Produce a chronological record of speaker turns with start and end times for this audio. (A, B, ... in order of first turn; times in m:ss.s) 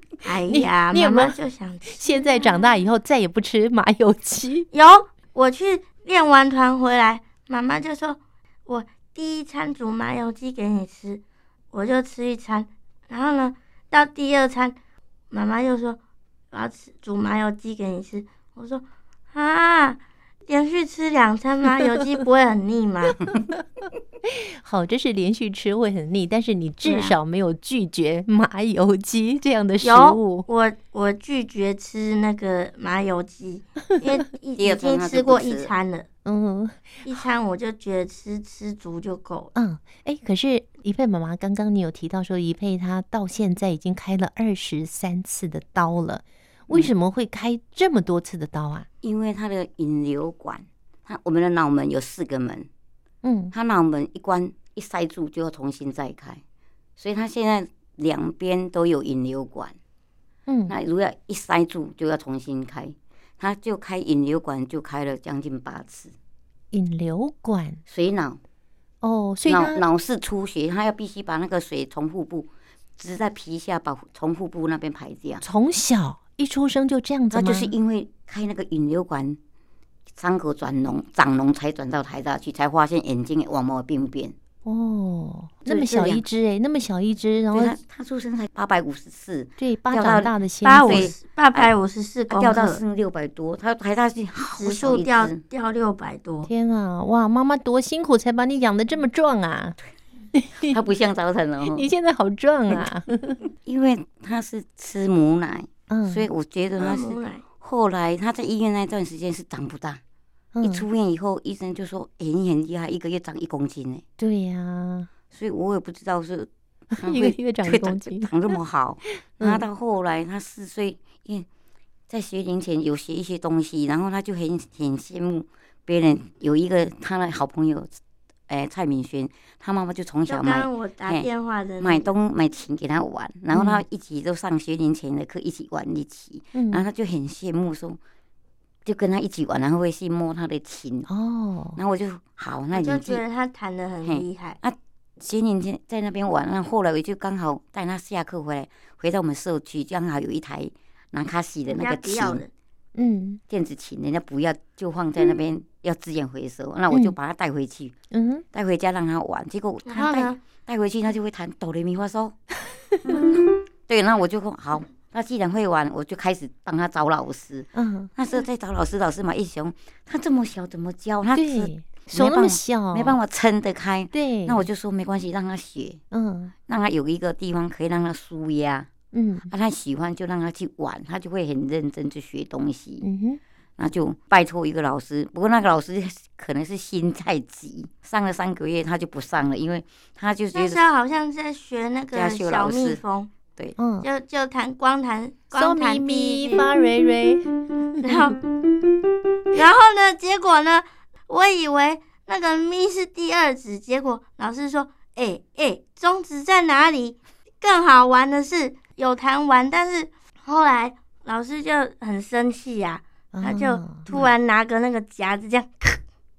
0:00.2-0:02.6 A
0:00.5-0:01.4 B
0:01.9-0:04.7 B
0:04.7-0:14.8 A
0:15.3-0:16.0 A
0:16.5-0:23.2 A
0:24.2-0:30.5 B
0:26.8-0:27.2 A
0:29.8-0:36.1 A
0:34.6-0:35.7 C
0:36.2-0:37.2 B
0:37.0-0:39.5 A
0:39.6-0:48.9 B
0:49.0-0:52.7 C
0:53.2-0:53.5 B
0:53.5-0:56.4 C
0:57.0-0:59.8 C
1:00.5-1:00.7 B
1:00.7-1:06.1 C
1:06.7-1:07.8 B
1:07.9-1:08.4 C
1:09.0-1:09.8 B
1:09.5-1:15.4 C
1:15.4-1:17.7 B
1:17.3-1:19.4 C
1:20.2-1:24.4 C
1:24.6-1:27.8 B
1:25.7-1:26.2 C
1:27.5-1:31.7 C
1:29.6-1:31.1 B
1:30.6-1:32.8 A
1:32.3-1:35.4 C
1:34.6-1:36.5 A
1:36.5-1:39.8 B
1:40.3-1:40.8 B
1:40.6-1:41.9 C
1:41.7-1:43.4 B
1:43.6-1:50.0 C
1:45.9-1:46.3 B
1:46.8-1:47.4 A
1:50.5-1:50.8 B
1:50.6-1:54.0 C
1:54.2-1:55.1 B
1:55.3-2:01.5 C
1:57.0-1:58.3 B
1:59.4-1:59.6 B
2:02.1-2:07.9 C
2:08.5-2:11.3 C
2:10.3-2:12.1 A
2:11.8-2:18.0 C
2:13.5-2:13.8 B
2:16.5-2:16.8 B
2:18.8-2:21.1 C
2:21.1-2:21.8 B
2:21.8-2:23.2 C
2:22.7-2:24.6 A
2:24.1-2:32.4 C
2:31.7-2:32.5 A
2:33.0-2:33.4 B
2:33.5-2:38.0 C
2:38.1-2:38.4 B
2:38.5-2:42.4 C
2:39.9-2:40.4 A
2:43.9-2:56.0 C
2:47.8-2:48.1 B
2:51.4-2:53.2 B
2:54.1-2:54.7 B
2:56.1-2:56.5 B
2:56.7-2:58.9 C
2:59.1-2:59.5 B
2:59.5-3:03.1 C
3:03.0-3:03.4 B
3:03.8-3:10.8 C
3:10.5-3:13.3 A
3:12.1-3:13.0 C
3:13.8-3:14.1 B
3:14.0-3:16.7 A
3:15.5-3:18.4 B
3:18.0-3:18.4 A
3:19.5-3:36.0 A
3:33.3-3:34.1 B